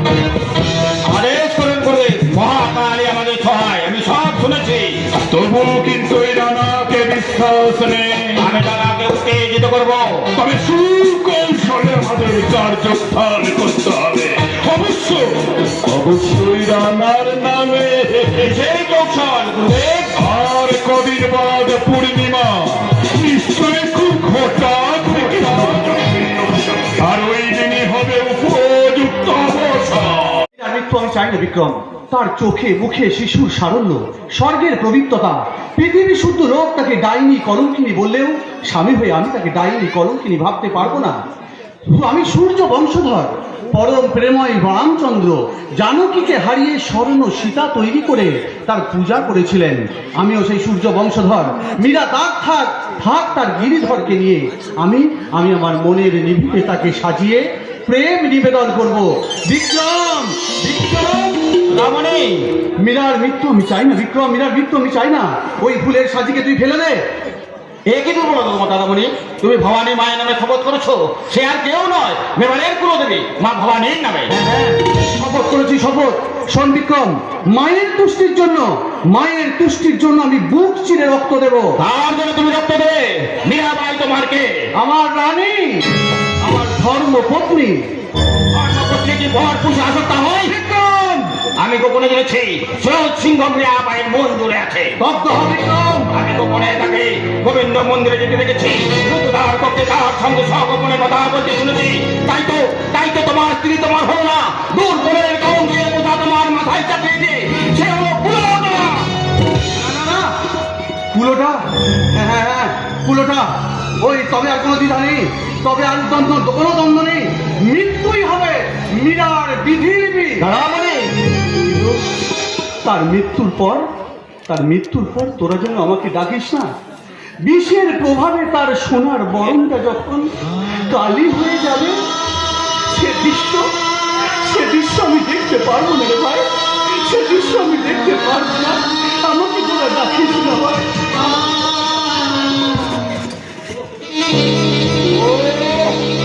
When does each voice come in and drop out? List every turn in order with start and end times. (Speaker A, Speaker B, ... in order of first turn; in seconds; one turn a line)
Speaker A: 1.0-5.1
Speaker B: 5.1-8.5
Speaker A: 8.4-10.3
Speaker B: 10.3-18.4
Speaker A: 18.4-20.2
Speaker B: 20.1-30.4
Speaker C: 30.6-41.2
Speaker C: 41.9-60.8
Speaker A: 60.7-62.5
Speaker C: 62.8-67.0
Speaker A: 67.9-74.3
Speaker C: 74.3-81.7
Speaker A: 81.8-84.6
Speaker C: 84.8-85.8
Speaker C: 86.4-87.8
Speaker A: 88.5-90.5
Speaker C: 90.5-91.3
Speaker A: 91.6-95.0
Speaker C: 95.0-96.1
Speaker A: 96.1-109.1
Speaker C: 109.8-110.3
Speaker C: 111.1-113.5
Speaker C: 114.0-120.5
Speaker A: 120.5-121.1
Speaker C: 121.6-122.0
Speaker C: 122.8-123.8
Speaker C: 124.5-126.7
Speaker C: 127.4-132.0
Speaker C: 132.9-133.7
Speaker C: 134.4-141.1
Speaker A: 145.2-145.9